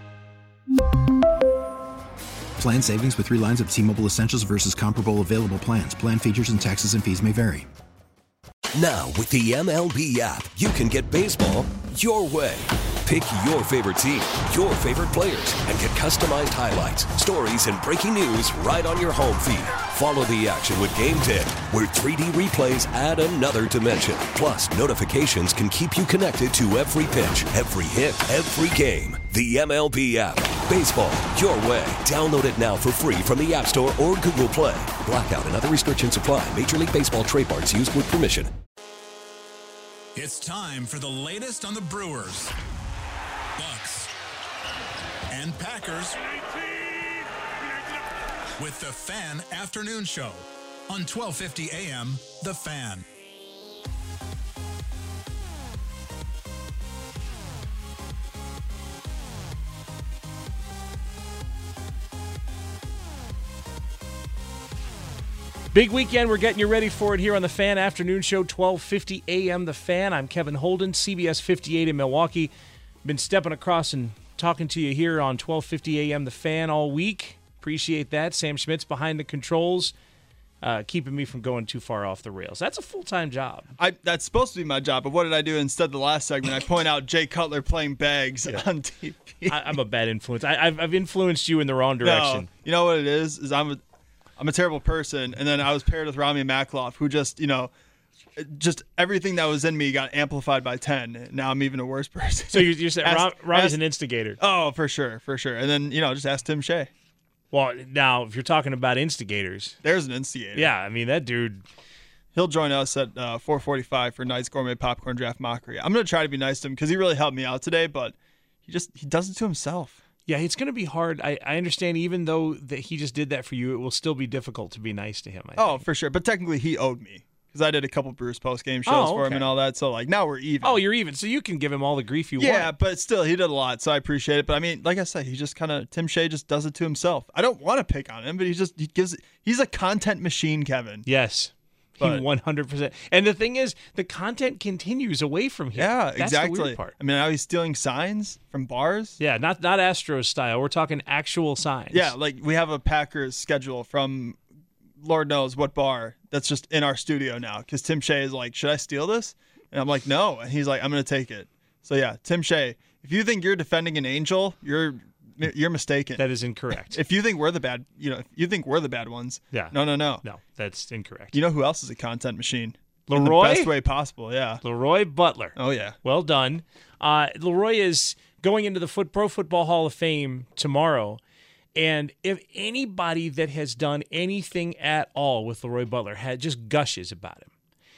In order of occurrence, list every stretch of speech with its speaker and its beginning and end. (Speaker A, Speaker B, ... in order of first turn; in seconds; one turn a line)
Speaker A: 2.6-7.7
Speaker B: 8.8-38.5
Speaker C: 40.1-42.5
Speaker C: 43.6-44.1
Speaker C: 45.3-46.2
Speaker C: 48.6-53.0
Speaker D: 65.7-72.5
Speaker D: 73.0-79.9
Speaker D: 80.6-83.7
Speaker E: 83.8-89.8
Speaker D: 89.5-92.5
Speaker E: 92.0-93.8
Speaker E: 94.4-97.7
Speaker E: 98.4-103.8
Speaker D: 102.5-104.4
Speaker E: 104.4-106.9
Speaker D: 107.5-109.8
Speaker E: 109.8-110.7
Speaker D: 110.5-111.6
Speaker E: 112.3-118.2
Speaker E: 118.7-120.0
Speaker D: 120.3-125.8
Speaker E: 125.6-130.8
Speaker D: 128.9-129.5
Speaker D: 130.6-132.7
Speaker E: 132.4-141.1
Speaker D: 141.1-146.9
Speaker E: 142.0-142.2
Speaker E: 145.7-149.2
Speaker D: 149.2-152.1
Speaker E: 151.9-154.4
Speaker E: 155.0-166.2
Speaker D: 166.2-167.0
Speaker E: 166.9-170.2
Speaker D: 169.5-171.4
Speaker E: 171.3-174.6
Speaker D: 173.1-173.7
Speaker D: 174.6-181.2
Speaker E: 175.6-176.0
Speaker D: 181.8-187.5